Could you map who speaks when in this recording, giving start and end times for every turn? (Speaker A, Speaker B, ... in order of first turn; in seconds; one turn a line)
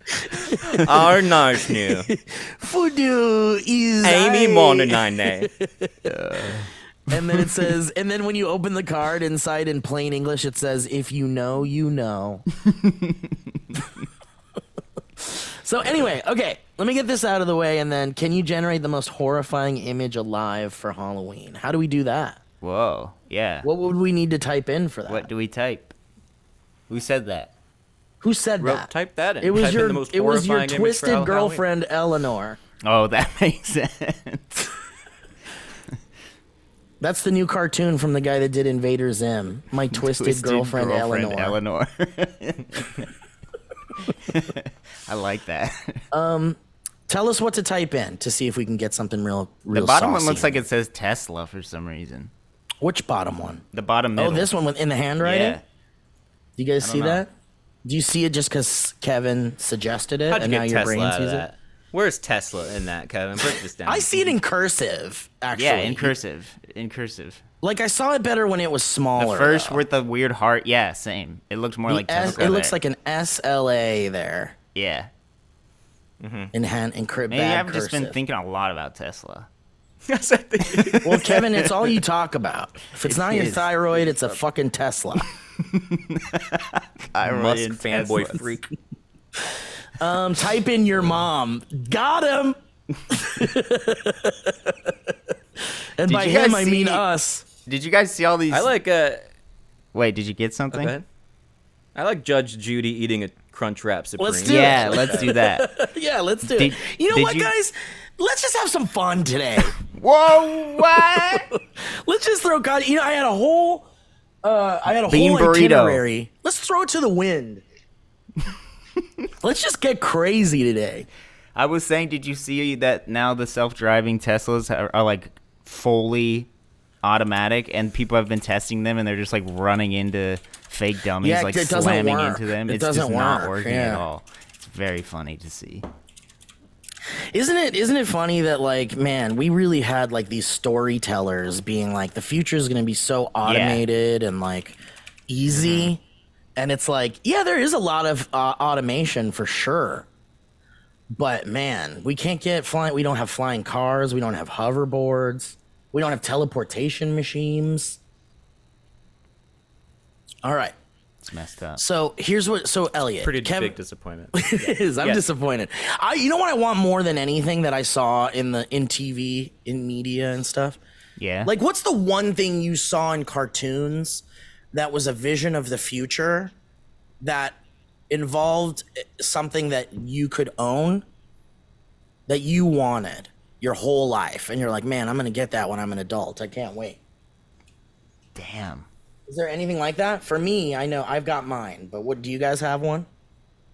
Speaker A: 0.1-1.0
Speaker B: 0.6-1.0
Speaker C: 0.7-2.1
Speaker A: 1.7-5.0
Speaker C: 4.0-5.5
Speaker A: 5.6-6.5
Speaker B: 6.1-7.6
Speaker A: 7.1-12.5
Speaker B: 12.6-13.8
Speaker A: 15.2-22.4
Speaker B: 22.6-23.7
Speaker A: 23.6-25.3
Speaker B: 25.1-25.9
Speaker B: 26.9-27.5
Speaker A: 28.2-28.9
Speaker C: 28.6-31.6
Speaker A: 29.4-32.6
Speaker B: 32.8-34.7
Speaker A: 37.0-41.6
Speaker B: 39.9-43.0
Speaker B: 44.0-46.0
Speaker A: 46.1-46.6
Speaker A: 47.1-50.6
Speaker B: 49.7-52.3
Speaker A: 52.8-53.6
Speaker B: 53.7-54.5
Speaker A: 54.2-55.6
Speaker B: 55.2-55.6
Speaker A: 56.6-57.3
Speaker B: 56.8-57.2
Speaker A: 57.9-61.5
Speaker C: 60.3-64.4
Speaker A: 63.9-66.1
Speaker B: 65.5-67.4
Speaker A: 67.6-69.8
Speaker B: 69.2-72.8
Speaker A: 71.9-74.5
Speaker C: 72.2-72.5
Speaker B: 74.8-75.1
Speaker C: 76.2-76.5
Speaker A: 76.5-78.2
Speaker B: 77.3-79.5
Speaker C: 80.1-81.4
Speaker B: 80.7-81.6
Speaker A: 81.0-85.3
Speaker B: 83.0-83.7
Speaker C: 83.9-84.2
Speaker B: 85.6-88.5
Speaker C: 87.2-88.7
Speaker A: 90.0-92.6
Speaker A: 93.1-94.9
Speaker A: 96.0-97.4
Speaker B: 96.1-97.1
Speaker B: 97.7-98.7
Speaker C: 98.5-99.2
Speaker B: 99.9-101.0
Speaker C: 100.7-101.0
Speaker C: 102.0-105.3
Speaker A: 104.2-109.8
Speaker B: 104.5-105.7
Speaker B: 106.5-107.5
Speaker B: 109.7-111.5
Speaker A: 110.8-113.9
Speaker A: 114.4-117.6
Speaker B: 114.9-116.0
Speaker A: 119.4-121.1
Speaker B: 121.5-126.5
Speaker B: 127.0-135.8
Speaker A: 131.2-134.0
Speaker A: 137.3-144.8
Speaker B: 143.4-143.8
Speaker A: 145.3-146.0
Speaker A: 146.6-150.1
Speaker A: 151.1-158.0
Speaker A: 160.4-160.7
Speaker B: 161.2-161.8
Speaker A: 161.8-163.8
Speaker C: 163.2-165.2
Speaker A: 164.3-170.8
Speaker B: 171.2-171.5
Speaker A: 171.4-176.5
Speaker A: 177.2-177.6
Speaker A: 178.1-181.1
Speaker A: 182.3-187.0
Speaker B: 188.3-188.9
Speaker A: 189.3-193.1